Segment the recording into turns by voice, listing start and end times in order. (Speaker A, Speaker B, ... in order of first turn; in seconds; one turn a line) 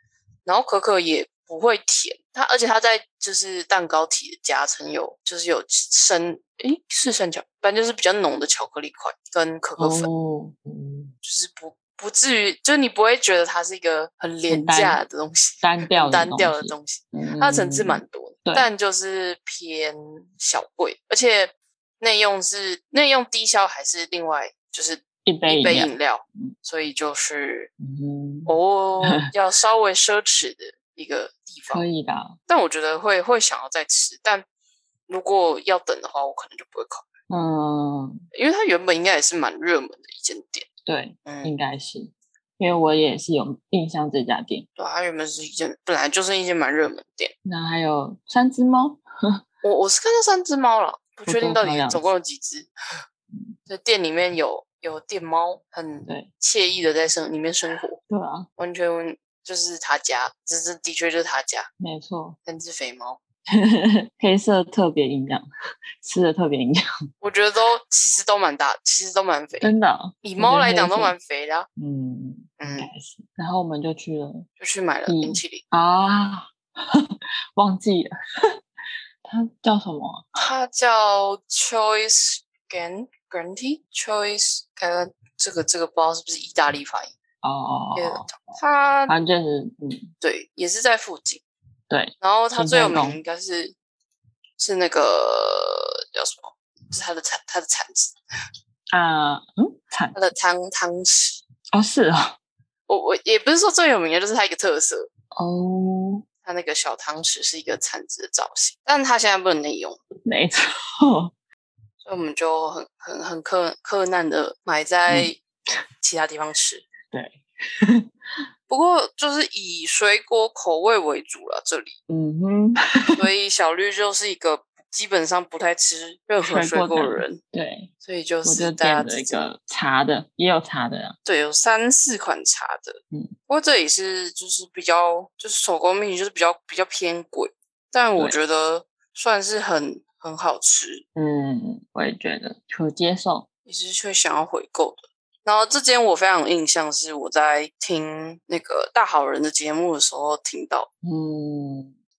Speaker A: 0.5-10.1
Speaker B: 9.8-11.1
Speaker A: 11.2-27.7
Speaker B: 14.5-15.0
Speaker B: 15.6-18.7
Speaker B: 25.2-26.5
Speaker B: 27.8-29.3
Speaker A: 28.5-31.9
Speaker B: 31.7-32.4
Speaker A: 32.5-34.5
Speaker A: 35.1-37.1
Speaker B: 37.3-38.2
Speaker A: 38.3-40.6
Speaker B: 40.9-44.7
Speaker A: 41.3-41.5
Speaker A: 44.8-47.3
Speaker B: 47.5-49.4
Speaker A: 49.6-52.7
Speaker B: 51.3-52.1
Speaker A: 53.7-58.0
Speaker B: 58.1-58.5
Speaker A: 58.6-61.7
Speaker B: 61.8-62.4
Speaker A: 62.5-63.2
Speaker B: 63.5-65.5
Speaker B: 66.0-66.8
Speaker A: 67.2-69.7
Speaker B: 69.6-71.2
Speaker A: 70.2-71.7
Speaker B: 71.8-74.5
Speaker A: 72.6-72.9
Speaker A: 74.6-75.6
Speaker B: 75.1-78.6
Speaker B: 79.2-80.4
Speaker A: 80.4-87.1
Speaker B: 87.4-90.1
Speaker A: 88.0-89.2
Speaker A: 90.2-91.4
Speaker B: 91.9-93.2
Speaker A: 92.2-93.8
Speaker A: 94.6-98.2
Speaker B: 98.9-100.2
Speaker A: 100.1-101.4
Speaker B: 101.7-102.4
Speaker A: 102.9-105.1
Speaker B: 105.3-106.2
Speaker A: 106.5-110.0
Speaker B: 110.2-111.3
Speaker A: 112.0-115.4
Speaker A: 116.0-116.9
Speaker B: 117.1-118.1
Speaker A: 118.7-122.0
Speaker B: 122.1-123.2
Speaker A: 123.2-127.4
Speaker B: 126.4-127.9
Speaker A: 128.0-129.4
Speaker B: 128.4-131.2
Speaker A: 131.2-141.1
Speaker B: 141.2-143.5
Speaker A: 143.7-150.9
Speaker B: 151.0-151.9